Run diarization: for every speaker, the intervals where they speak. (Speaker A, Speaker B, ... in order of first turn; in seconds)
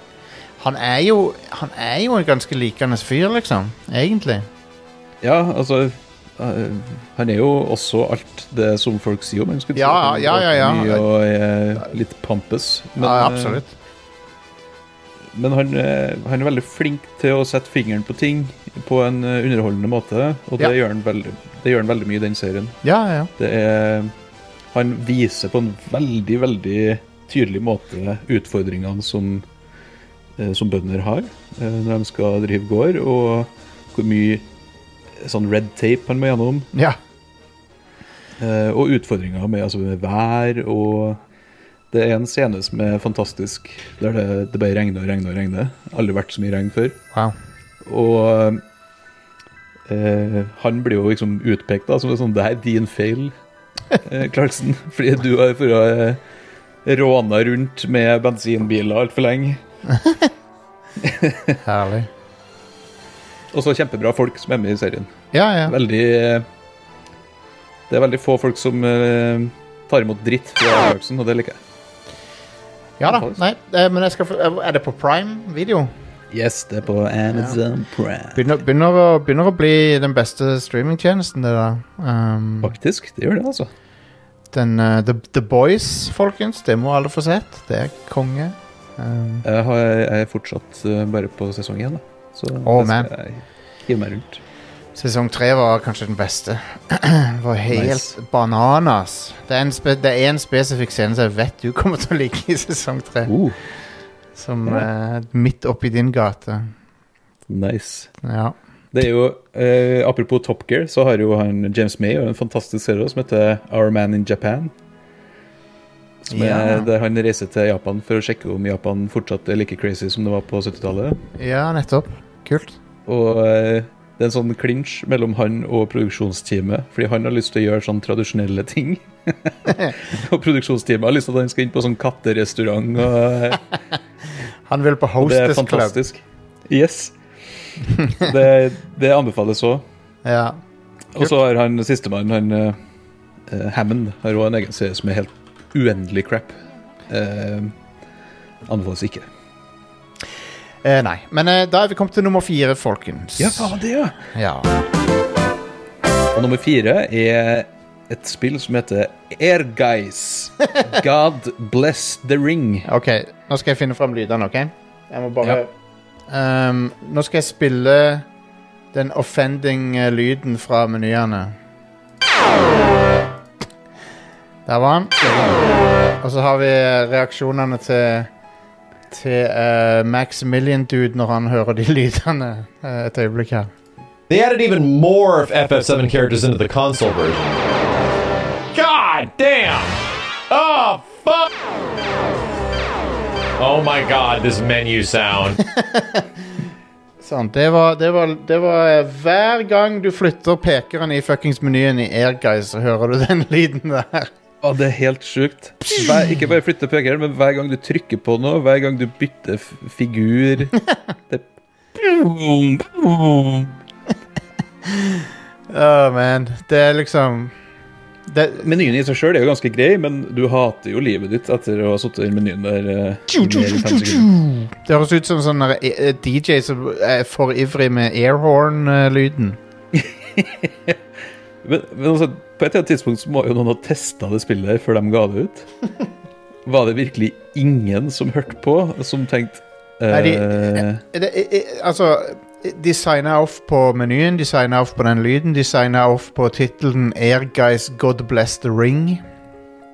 Speaker A: 0.6-4.5, 9.8-11.1, 13.0-13.7, 22.8-23.3, 59.9-60.3, 61.6-62.1, 65.3-65.8, 73.0-75.9, 78.3-82.8, 84.5-89.5, 92.6-93.1, 95.0-103.3, 104.3-106.7, 108.2-108.6, 116.3-116.9, 121.4-122.8, 134.7-136.0, 140.2-140.6, 150.8-153.8, 154.3-154.8, 162.8-165.7, 166.3-168.3, 168.9-171.6, 174.7-175.2, 176.2-178.3, 179.1-183.7, 195.8-196.2, 197.2-204.3, 214.9-217.5, 218.3-218.7, 223.3-229.6, 240.1-249.2
Speaker B: 5.2-13.6, 15.3-22.8, 23.4-24.1, 24.7-29.5, 30.4-34.5, 35.2-36.7, 38.4-41.2, 41.9-47.0, 47.8-48.6, 49.9-53.3, 54.0-56.2, 56.9-59.6, 61.0-61.6, 63.5-65.1, 65.7-66.5, 67.9-71.6, 73.0-73.4, 76.3-78.4, 82.6-83.7, 89.4-94.4, 97.7-98.2, 103.3-103.6, 107.5-108.1, 108.9-114.7, 116.2-121.2, 123.1-133.6, 135.2-139.8, 141.1-142.8, 143.5-146.6, 147.1-147.8, 148.7-149.3, 153.4-154.2, 156.3-162.9, 204.6-210.8, 211.3-213.8, 218.6-224.3, 229.9-231.0, 231.6-235.7, 236.7-241.0
Speaker C: 184.3-187.5, 188.7-190.0, 190.5-191.5, 193.6-195.6